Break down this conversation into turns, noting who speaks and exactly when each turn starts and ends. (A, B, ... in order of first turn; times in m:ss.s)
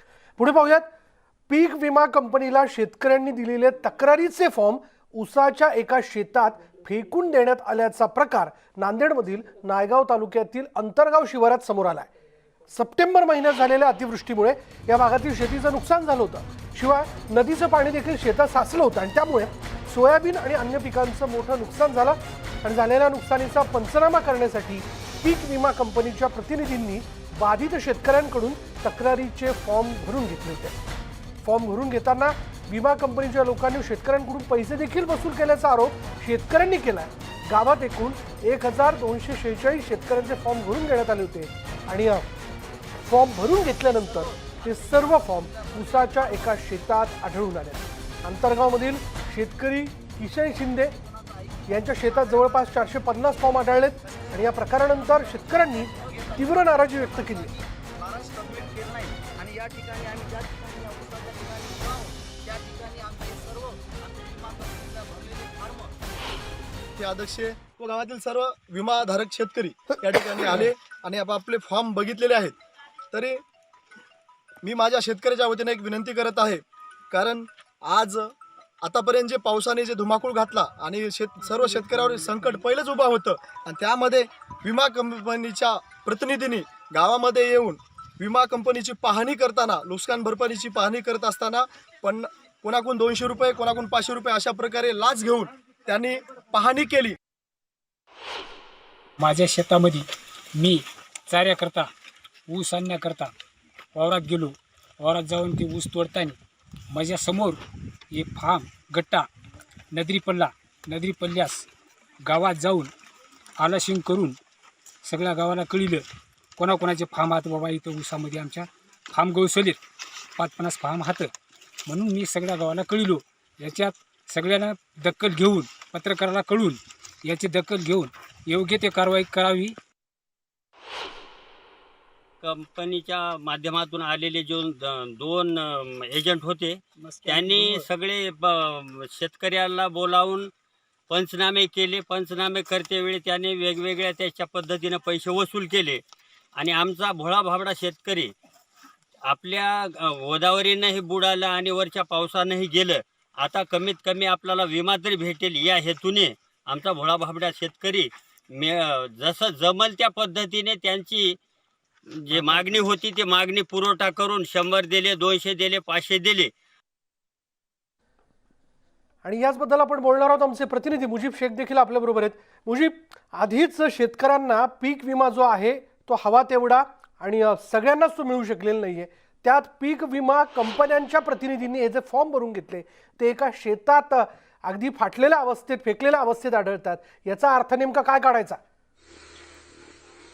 0:00.4-0:00.9 A
0:01.5-0:12.1 A
0:12.7-0:30.8 A
0:31.4-0:42.3 A
0:43.0-0:51.0 A
0:43.8-0:46.7 B
0:51.0-1:05.9 B
0:51.7-0:57.5 A
1:07.0-1:12.6 C
1:13.1-1:13.4 C
1:14.6-1:37.2 C
1:39.2-1:41.9 D
1:42.5-1:43.3 D
1:44.0-1:46.4 D
1:46.9-1:49.3 D
1:49.9-1:51.7 D
1:52.2-1:52.9 D
1:53.6-1:54.4 D
1:55.0-1:56.1 D
1:56.6-1:59.8 D
2:00.4-2:01.3 D
2:01.9-2:09.8 D
2:12.4-2:20.5 E
2:17.2-2:17.8 D
2:21.1-2:26.0 E
2:26.6-2:28.3 E
2:29.3-2:41.4 E
2:42.1-2:46.5 E
2:49.2-3:08.6 A